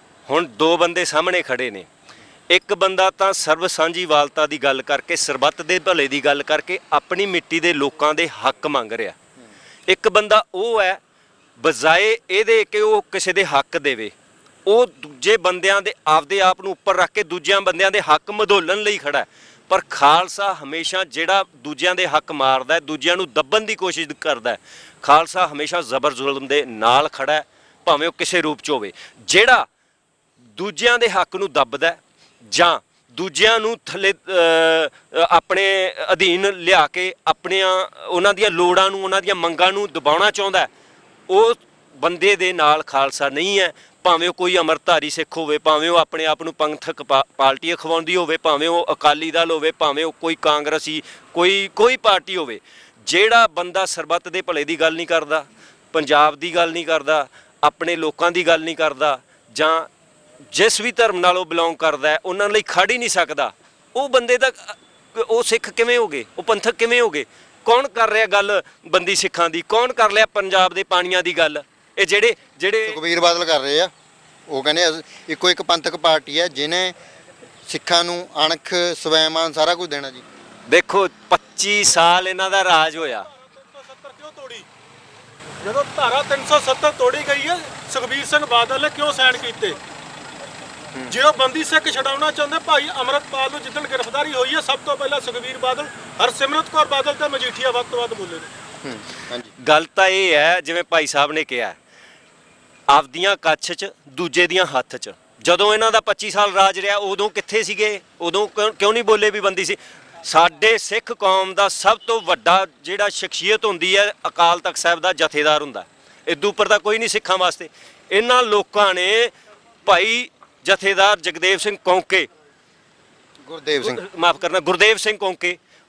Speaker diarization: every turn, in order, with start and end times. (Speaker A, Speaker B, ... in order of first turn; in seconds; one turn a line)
Speaker A: 0.3-1.9
Speaker A: 2.5-9.2
Speaker A: 9.9-11.0
Speaker A: 11.6-14.1
Speaker A: 14.7-29.7
Speaker A: 30.6-40.7
Speaker A: 41.3-59.9
Speaker A: 60.5-73.0
Speaker B: 72.8-73.9
Speaker B: 74.5-76.9
Speaker B: 77.7-80.2
Speaker A: 80.7-83.3
Speaker C: 83.5-84.7
Speaker C: 85.6-89.8
Speaker C: 91.1-98.5
Speaker B: 98.8-99.5
Speaker A: 99.6-101.8
Speaker A: 102.9-119.3
Speaker A: 119.8-122.3
Speaker B: 123.5-124.0
Speaker A: 123.8-125.6